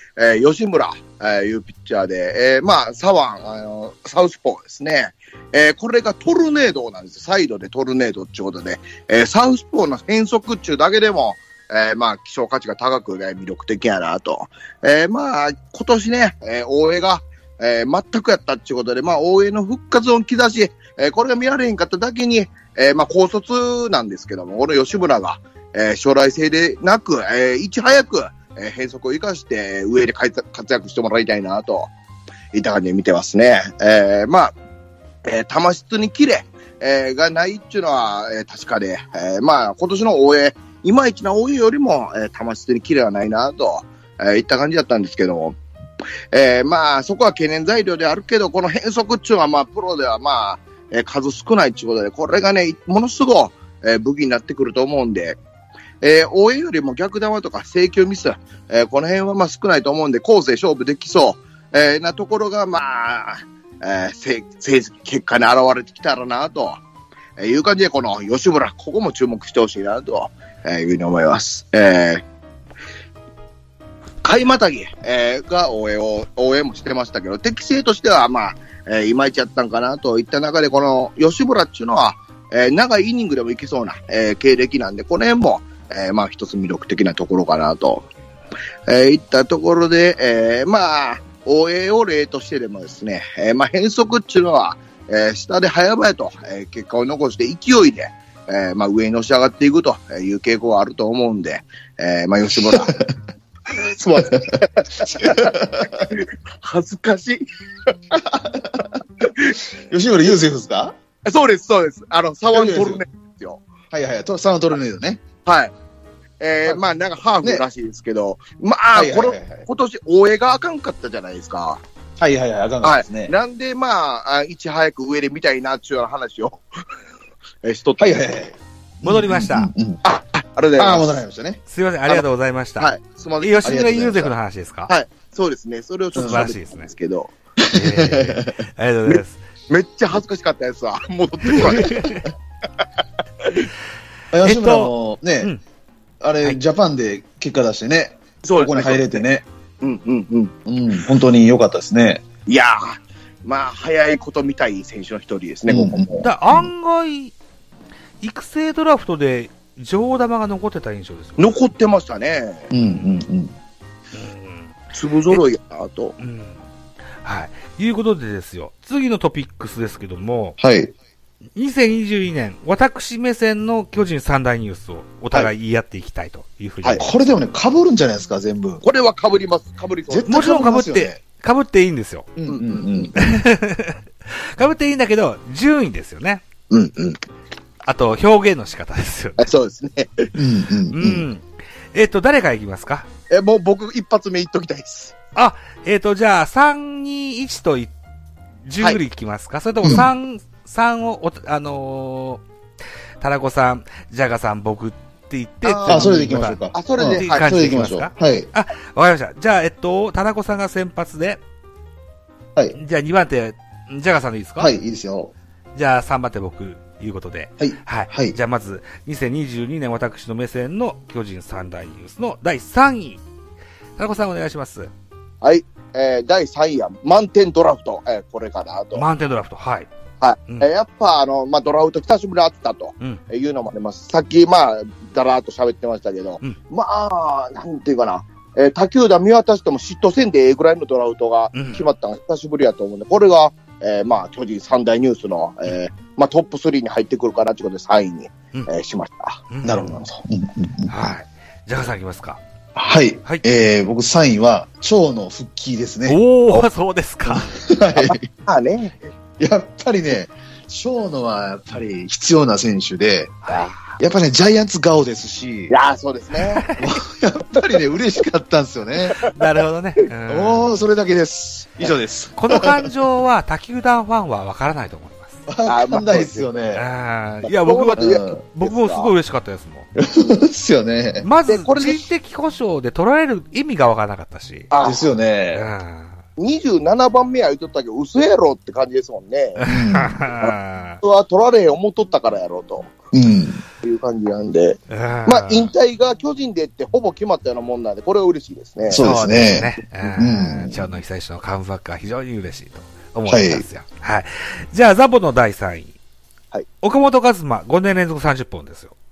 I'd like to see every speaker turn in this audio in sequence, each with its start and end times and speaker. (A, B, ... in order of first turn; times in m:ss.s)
0:00.2-0:31.9 A
0:32.5-0:34.5 A
0:35.2-0:45.6 A
0:46.3-0:55.4 A
0:56.0-1:06.8 A
1:07.4-1:12.2 A
1:14.2-1:28.1 A
1:28.9-1:42.9 A
1:42.6-1:43.1 B
1:44.0-1:46.1 B
1:44.2-1:45.5 A
1:46.1-1:47.9 A
1:48.4-1:48.9 B
1:49.2-1:49.5 A
1:49.9-1:50.9 B
1:51.3-1:53.6 A
1:52.5-1:53.0 B
1:53.9-1:55.2 B
1:55.5-1:55.7 A
1:56.4-2:01.8 A
1:58.9-1:59.6 B
2:02.2-2:03.3 B
2:02.8-2:06.6 A
2:07.6-2:08.3 A
2:08.0-2:10.0 B
2:09.0-2:09.7 C
2:10.0-2:11.2 A
2:10.8-2:11.6 B
2:11.7-2:15.0 C
2:12.8-2:13.6 A
2:13.6-2:14.3 B
2:14.9-2:17.3 A
2:16.1-2:16.9 C
2:16.2-2:16.4 B
2:17.6-2:18.5 B
2:17.7-2:19.4 C
2:19.1-2:21.9 A
2:21.4-2:22.3 C
2:24.3-2:25.5 B
2:24.4-2:25.6 C
2:26.2-2:29.4 B
2:28.4-2:29.2 A
2:29.8-2:30.5 A
2:30.7-2:32.2 B
2:32.5-2:36.0 A
2:35.7-2:36.7 B
2:36.2-2:37.4 C
2:38.2-2:41.6 C
2:41.4-2:42.7 A
2:42.7-2:43.5 B
2:42.8-2:43.2 C
2:44.1-2:44.8 C
2:45.0-2:46.2 A
2:46.2-2:46.6 C
2:47.2-2:50.6 C
2:50.6-2:50.9 B
2:51.6-2:57.1 C
2:56.9-2:58.8 B
2:58.8-3:00.4 A
3:00.1-3:01.2 B
3:00.3-3:02.3 C
3:02.4-3:03.4 B
3:02.5-3:02.9 A
3:03.1-3:06.4 C
3:06.7-3:07.2 A
3:07.8-3:09.5 C
3:09.4-3:10.3 A
3:10.4-3:11.3 B
3:10.9-3:13.1 C
3:13.3-3:15.1 A
3:15.4-3:17.9 C
3:18.6-3:22.4 C
3:19.8-3:20.1 B
3:23.2-3:31.4 C
3:25.6-3:28.5 B
3:26.7-3:28.0 A
3:32.7-3:34.7 C
3:34.6-3:35.3 B
3:35.8-3:43.2 C
3:37.6-3:38.4 B
3:44.0-3:44.9 C
3:45.4-3:49.0 A
3:48.9-3:49.9 C
3:50.2-4:09.4 A
4:01.5-4:01.9 C
4:09.5-4:10.0 C
4:09.6-4:11.1 B
4:10.9-4:12.4 C
4:12.8-4:16.7 B
4:16.1-4:17.6 C
4:17.3-4:18.3 B
4:18.1-4:18.9 A
4:19.4-4:25.8 B
4:23.4-4:24.0 C
4:25.7-4:26.6 A
4:26.4-4:26.8 C
4:26.8-4:29.2 B
4:29.2-4:30.7 C
4:30.3-4:32.8 B
4:32.4-4:35.4 C
4:35.5-4:36.9 B
4:35.7-4:36.5 A
4:36.7-4:39.9 C
4:37.6-4:39.1 A
4:38.0-4:38.4 B
4:40.0-4:41.3 B
4:41.2-4:44.7 C
4:41.5-4:42.0 A
4:44.7-4:45.1 A
4:44.8-4:45.7 B
4:45.5-4:46.2 C
4:46.4-4:49.6 A
4:49.6-4:51.0 C
4:49.7-4:50.2 B
4:50.4-4:52.9 A
4:53.1-4:53.6 B
4:53.8-4:59.0 A
4:54.9-4:55.7 C
4:58.9-5:00.9 B
4:58.9-5:06.0 C
5:03.2-5:03.7 B
5:06.8-5:09.0 C